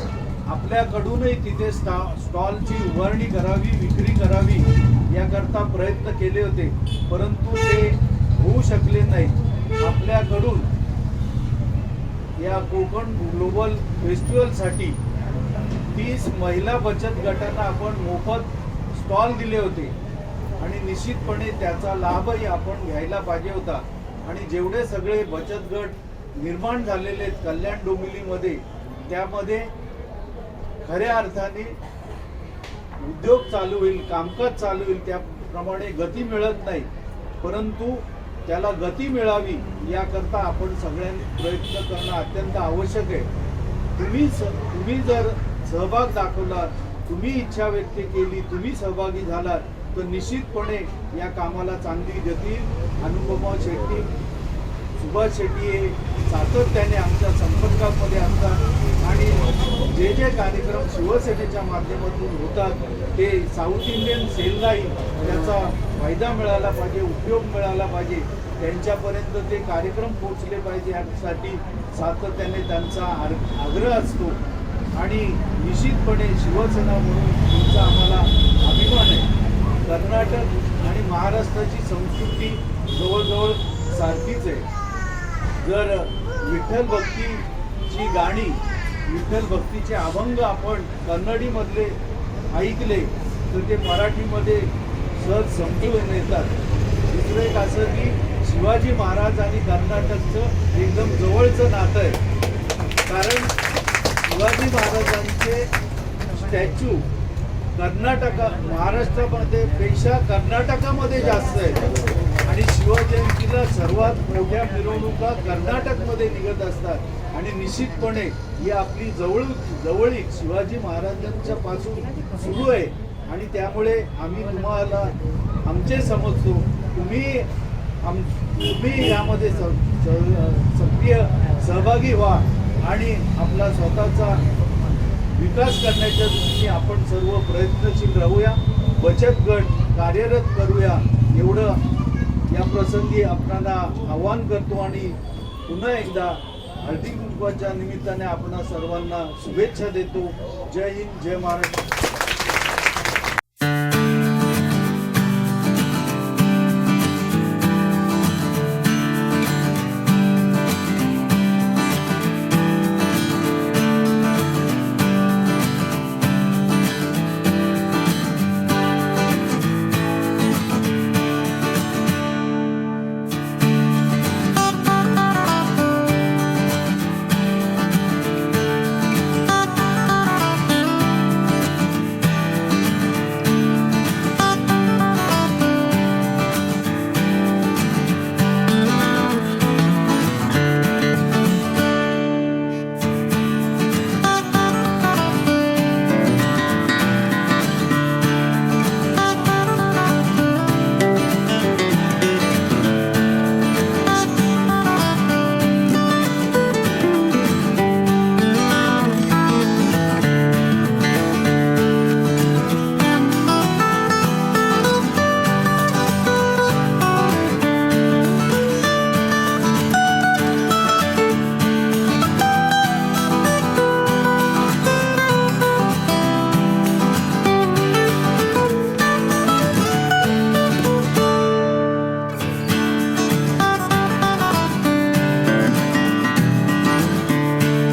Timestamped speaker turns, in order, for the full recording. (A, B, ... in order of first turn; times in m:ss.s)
0:00.5-0:10.7 A
0:12.4-0:15.0 A
0:15.9-0:19.9 A
0:20.6-0:29.7 A
0:30.8-0:31.8 A
0:33.0-0:36.9 A
0:37.4-0:43.3 A
0:44.0-0:54.1 A
0:55.0-1:14.4 A
1:15.0-1:19.3 A
1:19.8-1:24.7 A
1:25.6-1:32.0 A
1:32.5-1:36.5 A
1:37.1-1:42.2 A
1:43.1-1:43.6 A
1:44.3-1:45.7 A
1:46.3-1:47.0 A
1:47.8-2:07.5 A
2:08.0-2:14.4 A
2:15.3-2:21.8 A
2:22.5-2:31.8 A